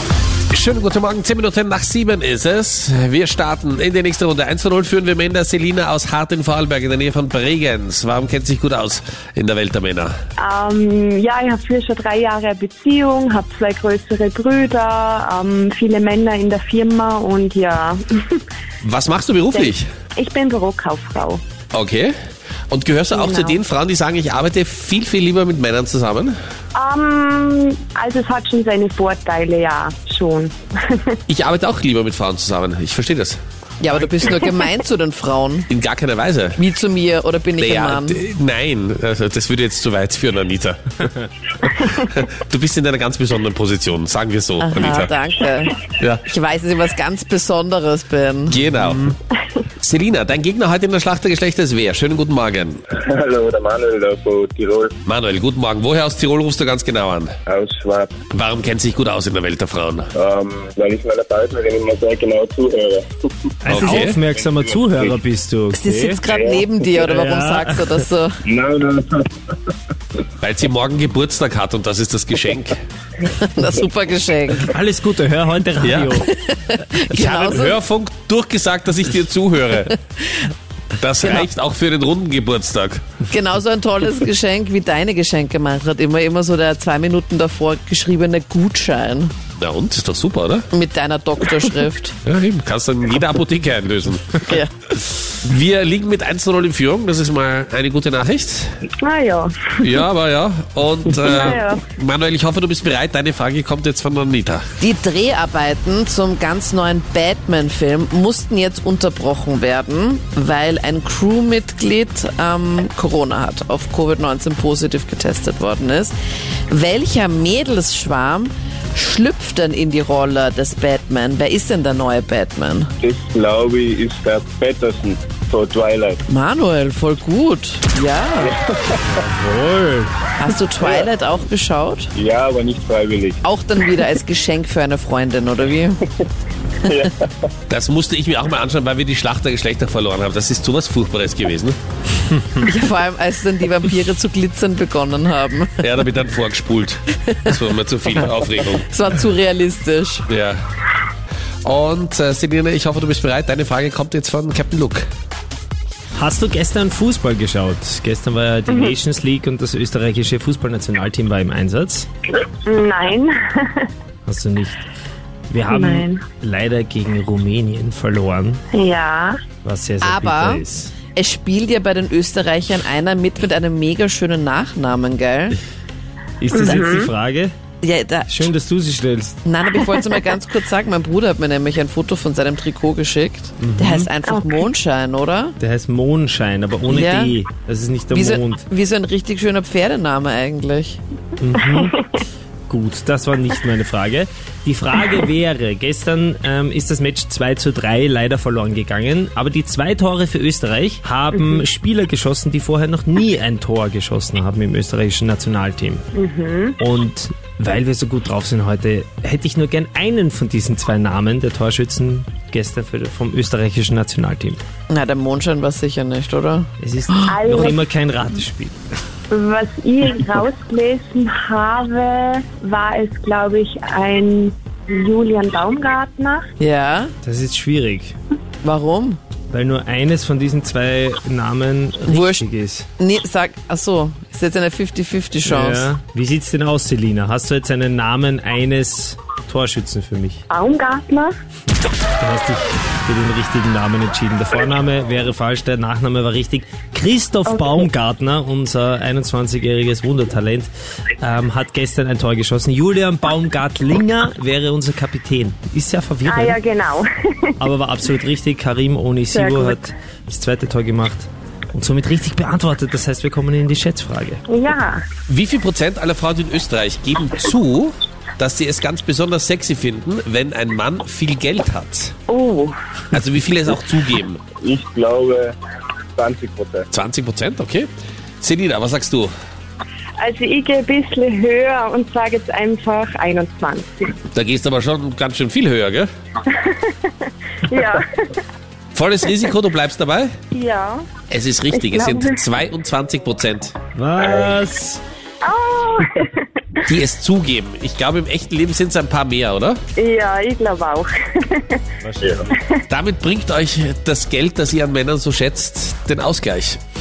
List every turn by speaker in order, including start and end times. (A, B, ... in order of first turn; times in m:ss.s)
0:00.5-0:10.1 A
0:10.4-0:18.4 B
0:18.8-0:19.9 A
0:19.5-0:21.4 B
0:21.7-0:22.1 A
0:22.7-0:26.3 A
0:23.1-0:23.6 B
0:26.7-0:31.2 B
0:31.3-0:33.4 A
0:33.8-0:35.7 C
0:35.7-0:36.6 A
0:36.6-0:38.2 C
0:37.6-0:45.1 A
0:44.6-0:48.6 C
0:48.5-0:49.2 A
0:49.8-0:52.8 A
0:52.9-0:55.0 D
0:55.0-0:57.3 A
0:57.5-0:58.1 D
0:58.3-1:00.1 A
1:00.1-1:05.1 D
1:03.6-1:06.2 E
1:03.6-1:04.2 A
1:05.7-1:08.4 C
1:06.2-1:06.6 D
1:07.0-1:08.0 E
1:08.4-1:09.3 D
1:10.4-1:12.8 A
1:13.2-1:14.7 C
1:14.7-1:16.3 E
1:15.8-1:16.2 A
1:16.3-1:17.8 C
1:17.1-1:20.0 A
1:21.0-1:23.0 A
1:21.2-1:21.5 C
1:23.3-1:29.3 C
1:29.6-1:30.7 A
1:30.7-1:32.2 C
1:32.2-1:34.5 A
1:34.4-1:34.7 C
1:35.3-1:38.8 A
1:39.0-1:40.0 B
1:39.8-1:44.6 A
1:41.2-1:41.8 B
1:44.8-1:56.1 C
1:56.7-2:02.9 C
2:03.0-2:06.2 D
2:06.3-2:08.5 C
2:08.4-2:09.2 D
2:09.1-2:10.1 E
2:10.4-2:12.1 C
2:10.8-2:11.1 D
2:12.1-2:13.4 D
2:13.4-2:16.0 C
2:16.8-2:17.5 D
2:17.7-2:21.8 A
2:22.6-2:25.8 C
2:25.8-2:28.8 A
2:27.3-2:27.6 C
2:28.7-2:30.2 C
2:30.3-2:30.6 A
2:31.6-2:35.1 A
2:36.2-2:42.1 E
2:42.4-2:43.9 B
2:44.2-2:44.8 E
2:45.5-2:48.6 E
2:45.7-2:46.2 B
2:48.7-2:49.4 B
2:49.6-2:50.9 E
2:50.0-2:55.6 C
2:56.4-2:57.5 E
2:56.6-2:57.1 B
2:57.8-2:58.5 C
2:58.3-2:59.4 E
2:59.4-3:05.6 C
3:03.6-3:04.1 E
3:05.6-3:08.6 E
3:06.9-3:07.4 C
3:08.1-3:11.0 C
3:11.4-3:12.0 E
3:12.7-3:26.0 E
3:26.1-3:26.8 B
3:26.8-3:34.6 E
3:34.9-3:37.7 C
3:36.8-3:38.8 E
3:37.3-3:37.8 B
3:39.3-3:46.4 B
3:46.6-3:47.1 C
3:47.2-3:48.2 E
3:48.6-3:49.2 C
3:49.5-3:52.9 E
3:52.1-3:52.4 C
3:53.0-3:55.9 C
3:55.4-4:00.4 E
4:00.5-4:01.3 B
4:02.2-4:16.6 E
4:07.6-4:07.8 B
4:16.3-4:17.5 B
4:17.6-4:24.4 E
4:19.3-4:19.8 B
4:24.5-4:25.0 B
4:25.3-4:32.1 A
4:32.3-4:32.7 B
4:33.1-4:34.4 A
4:34.6-4:35.5 D
4:36.2-4:36.9 D
4:36.9-4:39.3 A
4:40.2-4:44.1 B
4:44.3-4:46.1 A
4:46.5-4:48.4 B
4:48.9-4:50.3 A
4:50.5-4:51.1 B
4:51.3-4:53.7 A
4:51.7-4:52.4 B
4:53.9-4:55.0 E
4:54.2-4:54.6 D
4:55.4-4:56.9 B
4:56.8-4:59.8 A
5:00.0-5:01.8 B
5:02.0-5:02.6 E
5:02.2-5:02.5 D
5:02.5-5:02.8 B
5:02.9-5:06.8 A